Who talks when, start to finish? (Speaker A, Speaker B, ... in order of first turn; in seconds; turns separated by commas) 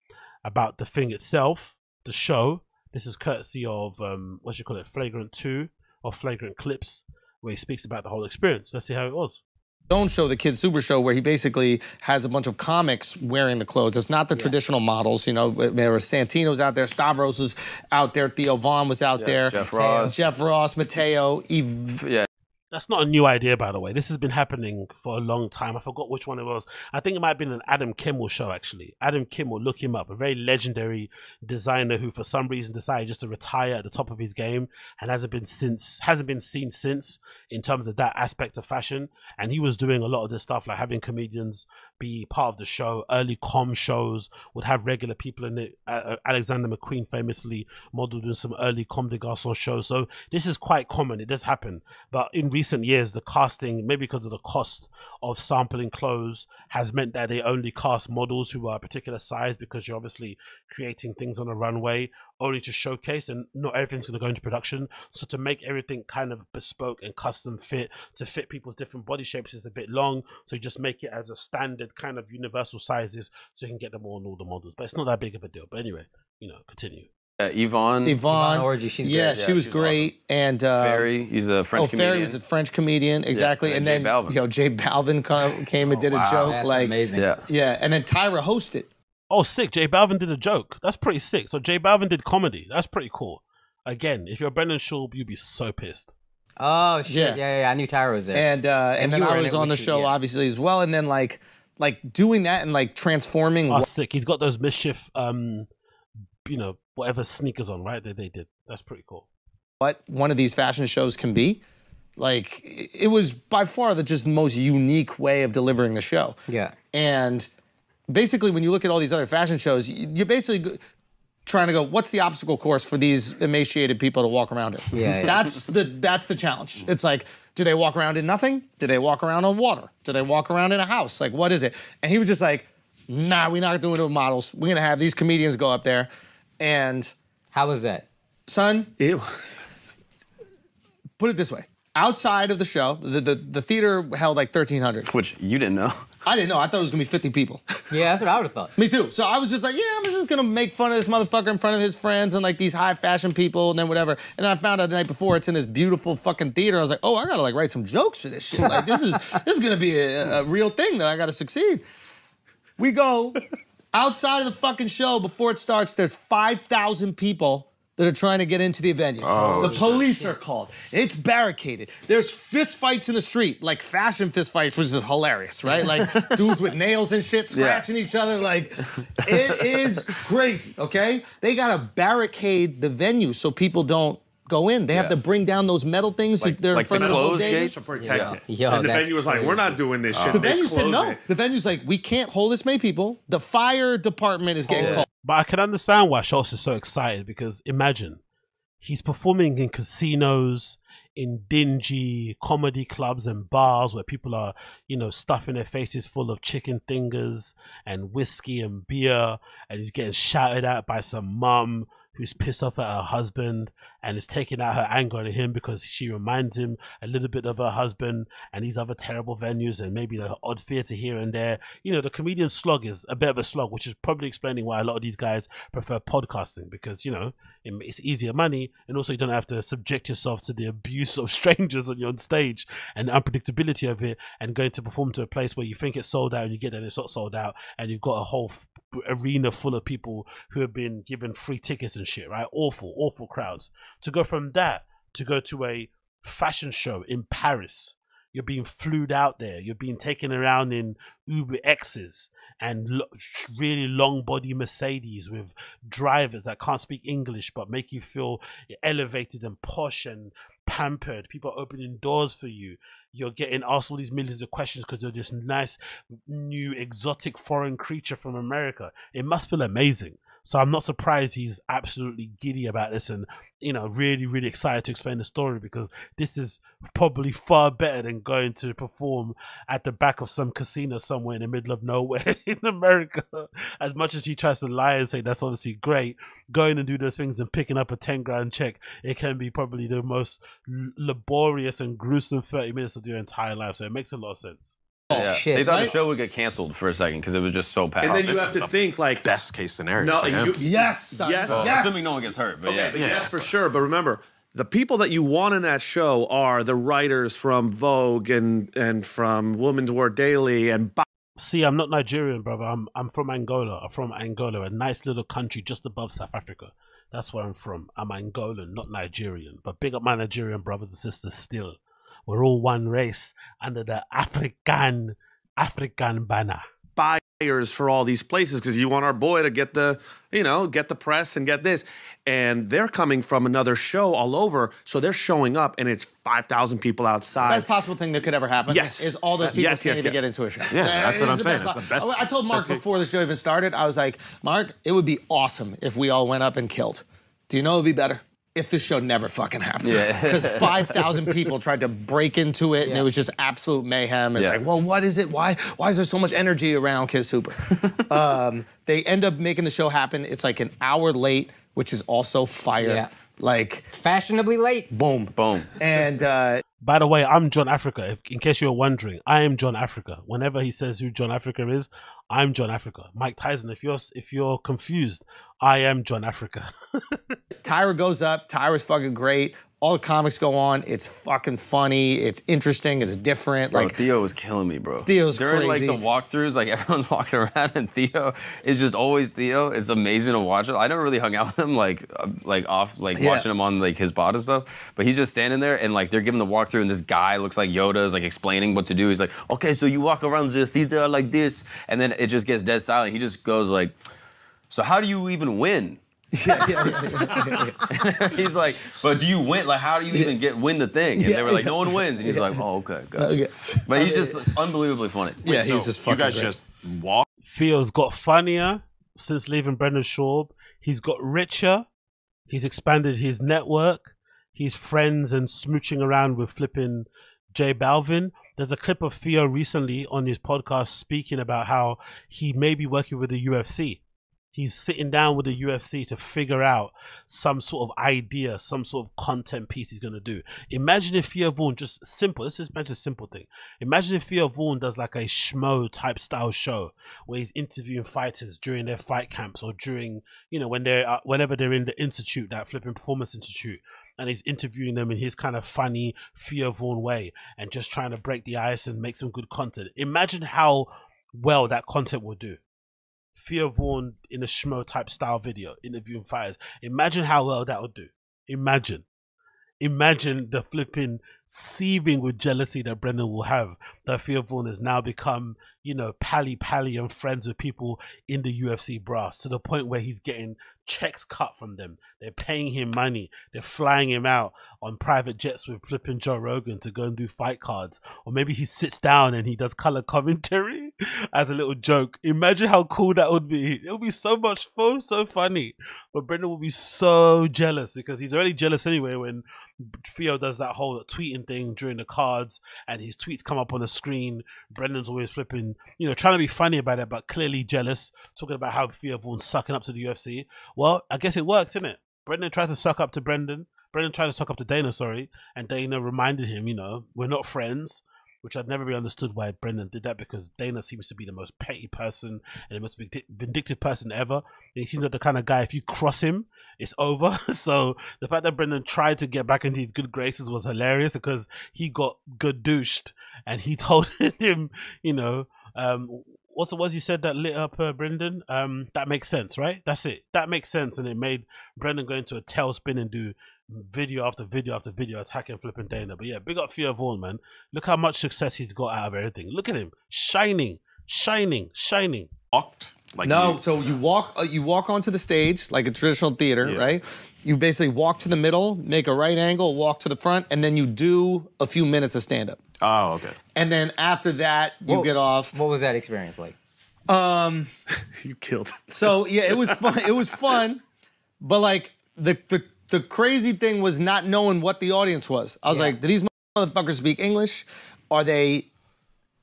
Speaker A: 0.5-9.4, Speaker B: 9.9-22.0, Speaker C: 19.2-20.2, Speaker D: 19.6-20.2, Speaker C: 22.0-22.3, Speaker A: 22.7-77.1, Speaker C: 77.4-78.2, Speaker B: 78.0-81.1, Speaker D: 78.3-79.3, Speaker C: 79.3-80.1, Speaker C: 80.8-82.4, Speaker B: 81.7-88.9, Speaker C: 83.3-84.4, Speaker E: 86.0-86.6, Speaker D: 86.4-87.3, Speaker C: 87.1-87.5, Speaker A: 89.3-96.1, Speaker D: 96.6-100.1, Speaker B: 97.1-97.4, Speaker B: 98.3-103.9, Speaker A: 103.7-105.7, Speaker A: 106.5-109.3, Speaker B: 109.8-111.6, Speaker B: 112.2-116.4, Speaker D: 116.5-116.7, Speaker B: 116.9-117.5, Speaker B: 118.1-120.8, Speaker B: 121.5-136.1, Speaker D: 124.9-125.4, Speaker B: 136.6-137.1, Speaker D: 137.5-138.1, Speaker B: 138.5-138.9, Speaker F: 139.0-139.6, Speaker B: 141.2-145.1, Speaker C: 145.0-146.1, Speaker B: 146.3-147.7, Speaker D: 147.9-148.7, Speaker B: 148.8-161.8, Speaker B: 162.8-163.4, Speaker B: 163.9-187.9, Speaker C: 169.2-169.8, Speaker D: 169.4-170.3, Speaker E: 169.4-169.8, Speaker C: 175.7-176.6, Speaker C: 177.5-177.9, Speaker C: 179.0-179.9, Speaker C: 184.9-185.2, Speaker C: 186.4-188.4, Speaker F: 186.8-191.2, Speaker D: 188.0-189.8, Speaker E: 190.1-190.4, Speaker B: 190.3-195.1, Speaker C: 194.7-195.1, Speaker D: 194.8-195.0, Speaker A: 195.2-198.2, Speaker A: 198.8-294.8, Speaker B: 295.1-295.9, Speaker C: 295.1-298.5, Speaker D: 295.2-295.8, Speaker F: 298.0-299.3, Speaker E: 298.0-300.7, Speaker F: 300.0-301.9, Speaker B: 300.6-302.0, Speaker C: 301.5-303.1, Speaker F: 302.6-311.0, Speaker E: 302.9-303.6, Speaker A: 311.4-326.6, Speaker F: 327.0-337.7, Speaker B: 337.4-363.9, Speaker F: 338.7-340.3, Speaker E: 339.4-339.7, Speaker E: 340.7-342.8, Speaker C: 349.8-351.2, Speaker C: 357.7-358.2, Speaker D: 362.8-363.1, Speaker D: 363.9-364.9, Speaker B: 364.9-366.6, Speaker C: 365.4-365.8, Speaker A: 366.8-377.2, Speaker B: 377.6-384.0, Speaker C: 383.7-403.9, Speaker B: 385.1-386.1, Speaker B: 393.1-393.5, Speaker C: 404.7-406.0, Speaker B: 406.3-407.7, Speaker C: 406.5-415.6, Speaker B: 411.2-412.6, Speaker B: 413.2-414.6, Speaker B: 415.4-416.6, Speaker E: 415.5-417.2, Speaker A: 417.4-421.9, Speaker A: 422.5-434.0, Speaker A: 434.5-462.6, Speaker A: 463.4-469.1, Speaker A: 469.8-499.4, Speaker A: 500.0-552.3, Speaker E: 552.5-553.6, Speaker B: 553.2-562.6, Speaker E: 556.6-556.9, Speaker E: 562.8-563.4, Speaker B: 563.5-565.5, Speaker D: 564.9-566.5, Speaker B: 567.1-567.7, Speaker F: 567.9-569.9, Speaker B: 569.0-570.8, Speaker B: 571.4-578.7, Speaker D: 575.7-576.0